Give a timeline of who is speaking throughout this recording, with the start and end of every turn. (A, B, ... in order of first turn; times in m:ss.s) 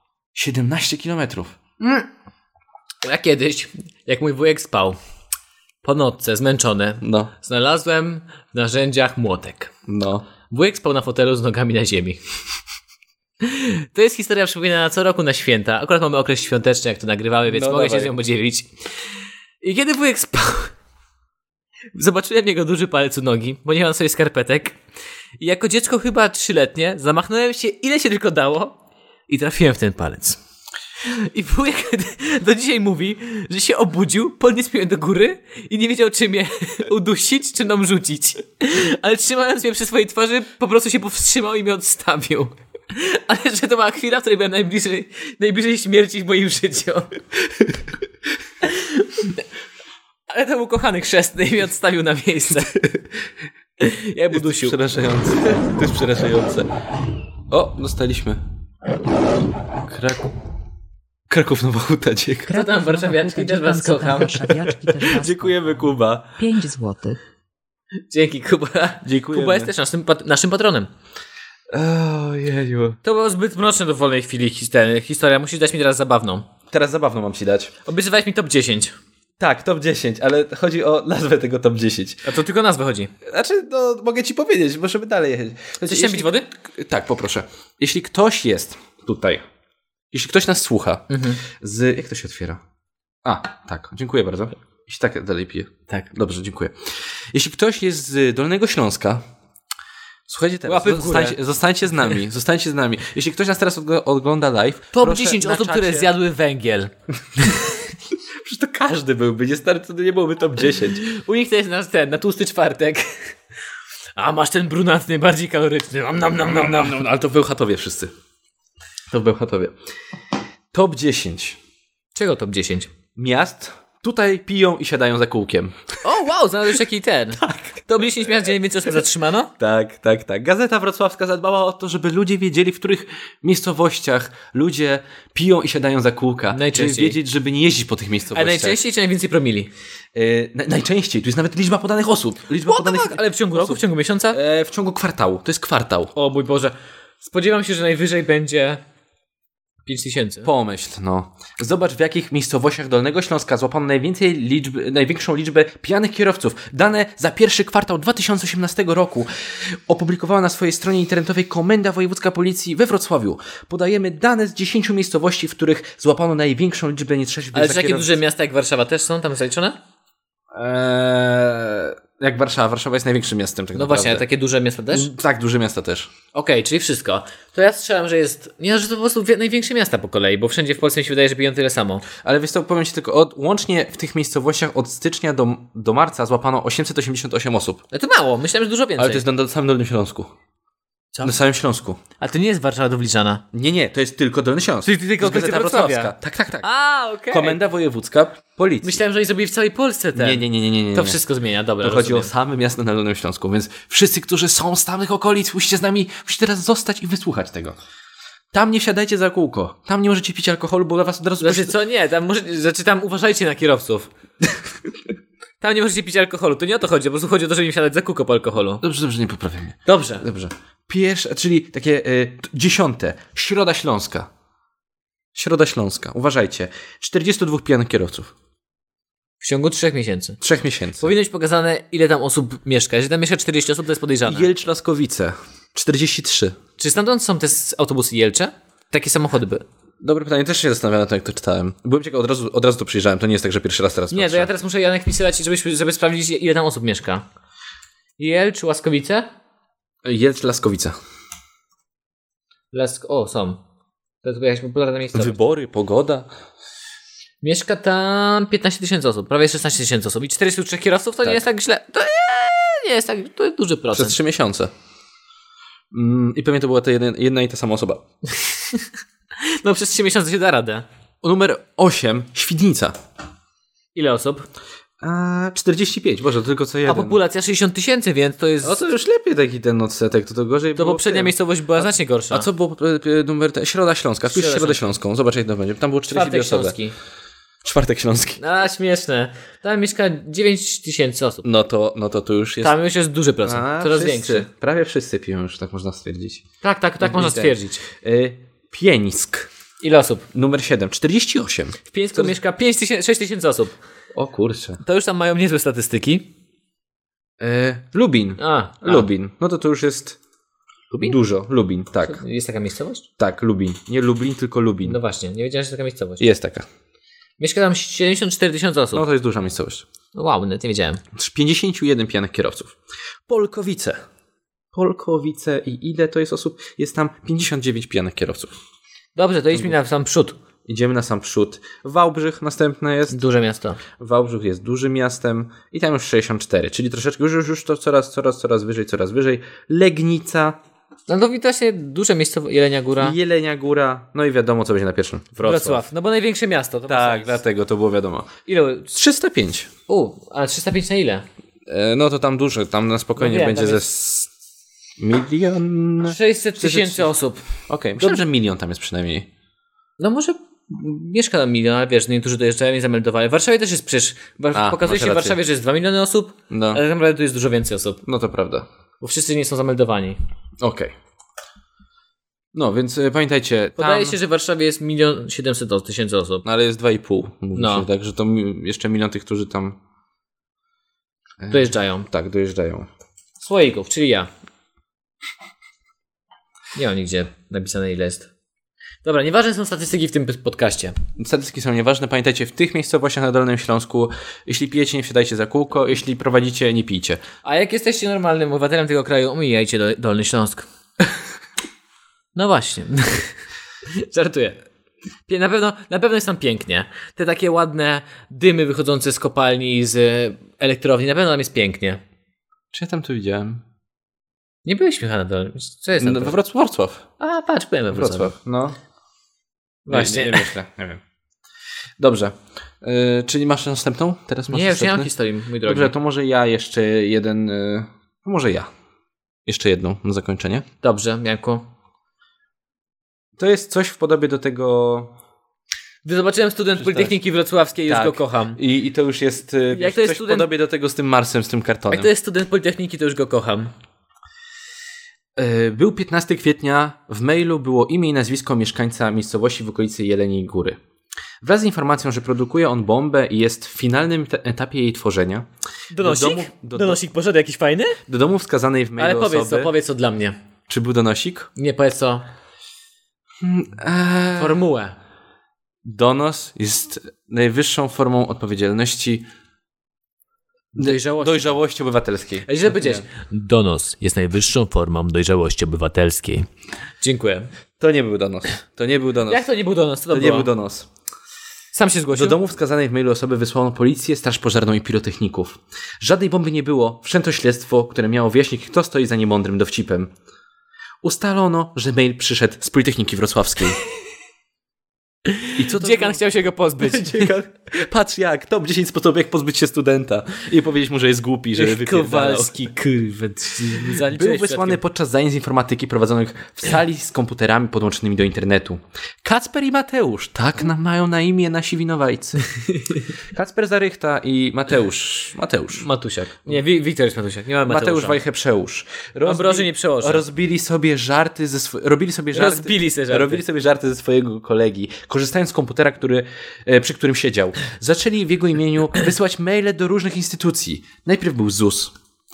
0:00.3-0:01.6 A
0:01.8-0:02.1 B
0:03.0-0:05.0 B
0:05.8-0:09.7 B
0:07.0-0:07.3 A
0:09.9-0:10.2 A
0:10.5-0:12.2 B
0:13.4-0:18.7 B
0:17.4-0:18.1 A
0:19.6-0:20.7 B
0:21.9-0:24.8 B
0:25.4-0:28.8 B
0:29.3-0:30.4 B
0:31.0-0:47.1 B
0:48.6-0:49.4 B
0:50.3-0:52.8 B
0:53.8-0:54.8 B
0:54.3-0:56.7 A
0:57.5-0:58.4 A
0:59.8-1:00.3 A
1:01.3-1:02.6 A
1:02.5-1:07.2 C
1:02.5-1:04.5 B
1:04.7-1:06.4 A
1:08.1-1:10.9 B
1:09.0-1:09.7 A
1:11.7-1:13.0 A
1:13.0-1:16.5 B
1:16.7-1:17.7 A
1:17.8-1:18.9 B
1:19.4-1:22.3 A
1:22.2-1:23.1 B
1:23.2-1:29.4 A
1:25.9-1:26.5 B
1:30.1-1:32.6 A
1:31.1-1:31.4 B
1:33.2-1:39.2 A
1:40.3-1:46.1 A
1:40.6-1:41.4 B
1:44.9-1:47.5 B
1:48.4-1:51.0 A
1:51.0-1:53.3 B
1:54.2-1:57.1 B
1:56.5-1:58.1 A
1:59.1-1:59.7 A
2:00.7-2:01.6 A
2:02.1-2:02.9 B
2:03.2-2:06.0 A
2:06.0-2:09.5 B
2:07.4-2:07.7 A
2:09.6-2:18.8 A
2:16.5-2:17.2 B
2:18.3-2:19.7 B
2:20.1-2:26.1 A
2:22.6-2:24.4 B
2:26.1-2:28.8 B
2:29.8-2:30.5 B
2:30.4-2:48.1 A
2:47.5-2:49.8 B
2:50.5-2:54.2 A
2:53.7-2:55.1 B
2:54.9-2:56.1 A
2:56.3-3:02.0 B
3:02.2-3:07.8 A
3:07.9-3:09.2 B
3:09.0-3:10.3 A
3:11.2-3:12.0 A
3:12.2-3:13.4 B
3:13.5-3:16.7 A
3:14.8-3:17.6 B
3:17.3-3:19.0 A
3:18.8-3:22.3 B
3:20.1-3:21.2 A
3:21.8-3:27.8 A
3:28.5-3:31.7 A
3:31.4-3:34.1 B
3:35.6-3:38.8 B
3:38.8-3:44.3 A
3:39.9-3:40.2 B
3:45.3-3:48.3 A
3:49.4-3:50.4 B
3:50.4-3:51.1 A
3:51.0-3:54.5 B
3:54.2-3:56.6 A
3:56.8-3:59.6 B
4:00.0-4:04.5 A
4:04.1-4:07.2 B
4:08.2-4:09.3 B
4:10.0-4:11.0 A
4:12.7-4:13.6 B
4:14.2-4:15.3 B
4:15.1-4:16.3 A
4:17.4-4:24.2 B
4:23.9-4:24.7 A
4:25.9-4:28.0 A
4:29.4-4:30.8 B
4:31.2-4:33.0 A
4:33.9-4:34.5 B
4:35.0-4:37.2 A
4:36.8-4:38.9 B
4:38.6-4:46.7 A
4:40.8-4:42.5 B
4:44.3-4:44.9 B
4:46.1-4:46.9 B
4:47.6-4:48.4 A
4:48.4-4:51.4 B
4:51.4-4:52.7 A
4:52.6-4:54.5 B
4:53.4-4:56.4 A
4:56.6-4:57.8 B
4:57.0-4:59.5 A
4:59.8-5:00.2 B
5:00.3-5:02.3 A
5:01.9-5:03.7 B
5:04.1-5:04.8 A
5:04.8-5:06.3 B
5:07.4-5:10.2 A
5:08.4-5:09.1 B
5:10.9-5:11.2 B
5:11.0-5:12.2 A
5:12.0-5:13.0 B
5:13.2-5:15.0 A
5:14.8-5:16.2 B
5:16.2-5:16.6 A
5:17.4-5:19.0 B
5:18.9-5:19.8 A
5:20.1-5:21.0 B
5:21.1-5:22.7 A
5:23.3-5:24.0 A
5:24.7-5:28.5 A
5:29.2-5:30.4 B
5:30.6-5:33.2 A
5:33.1-5:33.8 B
5:34.0-5:40.6 A
5:41.1-5:43.2 B
5:43.0-5:45.8 A
5:45.4-5:47.4 B
5:46.9-5:48.3 A
5:48.5-5:48.9 B
5:48.9-5:49.7 A
5:49.9-5:51.2 B
5:51.7-5:54.3 A
5:53.2-5:53.8 B
5:55.0-5:57.1 A
5:56.1-5:57.4 B
5:57.7-5:59.3 A
6:00.0-6:08.0 B
6:04.5-6:05.4 A
6:06.5-6:06.8 A
6:08.0-6:08.6 A
6:09.0-6:10.2 B
6:10.6-6:10.9 A
6:12.5-6:14.2 A
6:13.8-6:16.4 B
6:16.4-6:19.8 A
6:17.6-6:17.8 B
6:21.4-6:22.9 A
6:21.5-6:22.1 B
6:23.4-6:24.3 B
6:26.7-6:28.3 B
6:29.0-6:31.0 B
6:31.2-6:37.2 A
6:37.4-6:40.6 B
6:42.3-6:43.3 B
6:43.9-6:44.6 B
6:45.3-6:52.0 B
6:52.7-6:53.6 A
6:54.6-6:56.4 B
6:56.0-6:57.0 A
6:57.2-6:58.3 B
6:57.9-6:58.8 A
6:59.8-7:00.5 B
6:59.9-7:01.0 A
7:02.0-7:05.1 A
7:04.5-7:05.9 B
7:05.6-7:08.7 A
7:09.4-7:10.6 A
7:10.8-7:11.7 B
7:13.4-7:15.1 A
7:16.0-7:18.6 B
7:16.8-7:17.1 A
7:17.9-7:22.1 A
7:19.7-7:20.5 B
7:21.9-7:23.7 B
7:25.4-7:30.8 A
7:31.4-7:35.5 A
7:35.9-7:38.0 B
7:36.0-7:37.0 A
7:38.1-7:39.7 A
7:39.0-7:40.4 B
7:40.7-7:41.5 A
7:41.6-7:42.3 B
7:43.4-7:44.6 A
7:44.4-7:45.0 B
7:45.8-7:49.2 A
7:50.7-7:51.6 B
7:50.8-7:53.0 A
7:52.5-7:56.5 B
7:57.0-7:57.5 B
7:57.8-7:59.4 A
7:59.3-8:00.5 B
8:00.1-8:00.9 A
8:01.7-8:02.4 B
8:02.1-8:10.1 A
8:11.0-8:13.8 A
8:15.2-8:17.3 B
8:15.5-8:16.2 A
8:16.8-8:32.4 A
8:21.6-8:22.7 B
8:23.5-8:24.8 B
8:33.3-8:35.8 A
8:35.7-8:38.2 B
8:37.6-8:51.9 A
8:39.2-8:40.2 B
8:42.3-8:43.4 B